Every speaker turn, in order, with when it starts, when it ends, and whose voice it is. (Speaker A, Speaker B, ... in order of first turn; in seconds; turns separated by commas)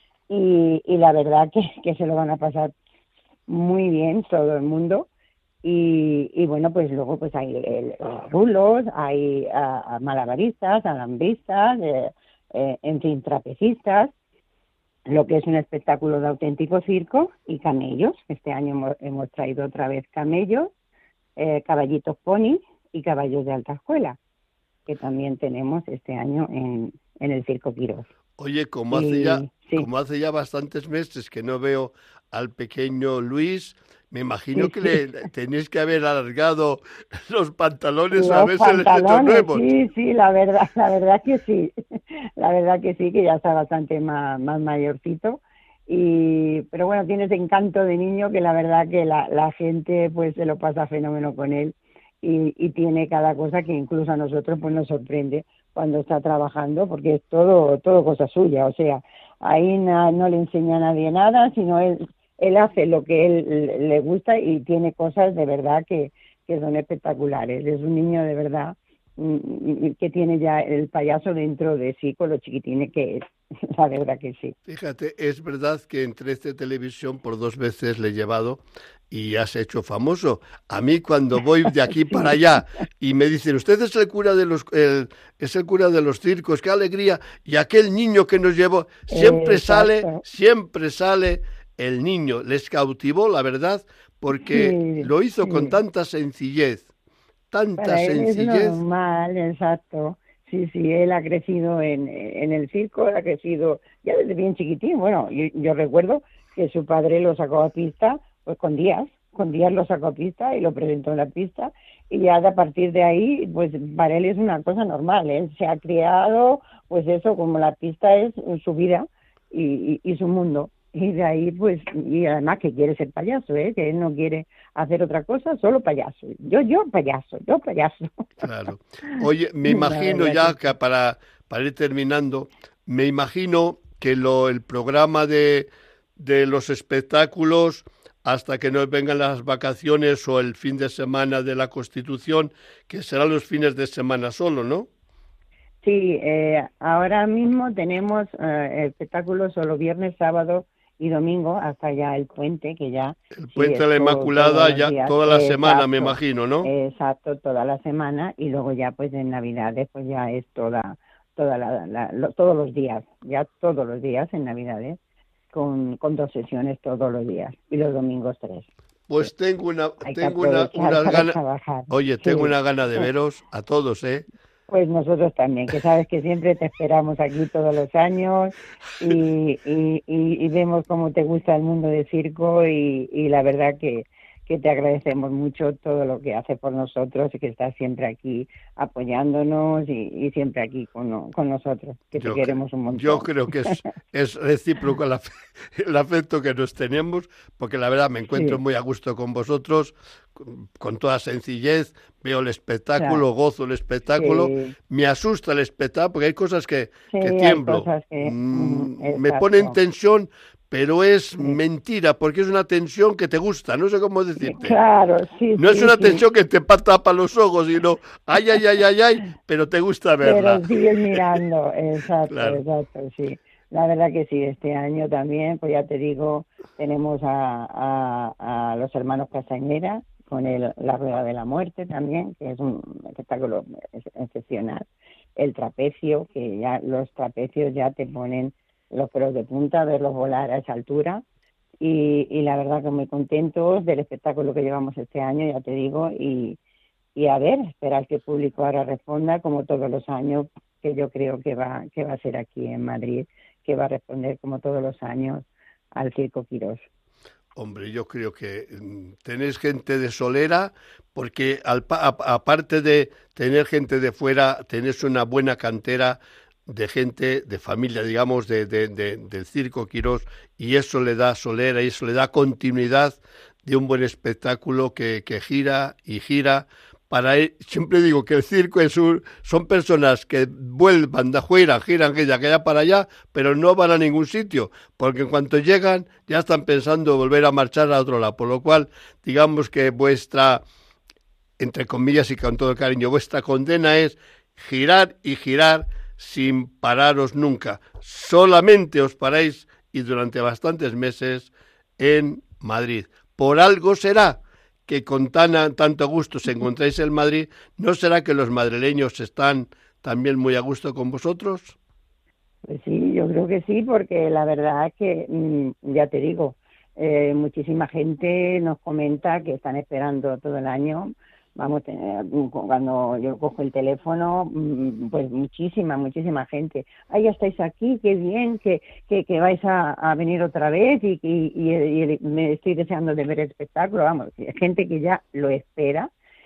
Speaker A: 0.3-2.7, Speaker A: 3.5-5.1, Speaker A: 5.6-14.1, Speaker A: 15.1-20.7, Speaker A: 21.4-24.2, Speaker A: 24.9-28.1, Speaker B: 28.4-39.6, Speaker A: 28.9-29.9, Speaker A: 34.6-35.0, Speaker A: 38.1-74.6, Speaker B: 74.7-96.9, Speaker A: 89.1-90.2, Speaker A: 94.5-95.7, Speaker B: 97.5-98.8, Speaker A: 97.8-128.4, Speaker B: 128.4-144.9, Speaker A: 129.7-130.6, Speaker A: 145.8-165.0, Speaker B: 153.3-156.7, Speaker A: 165.5-168.7, Speaker B: 169.1-171.4, Speaker A: 170.0-172.6, Speaker B: 171.9-174.3, Speaker A: 174.7-193.8, Speaker B: 192.2-214.8, Speaker A: 198.3-198.6, Speaker A: 203.0-203.2, Speaker A: 204.2-204.7, Speaker A: 207.1-209.8, Speaker A: 214.4-216.2, Speaker B: 215.6-221.4, Speaker A: 220.2-241.2, Speaker B: 222.3-222.6, Speaker A: 241.8-246.6, Speaker A: 247.2-256.8, Speaker B: 257.6-290.6, Speaker B: 291.6-311.8, Speaker A: 312.7-336.1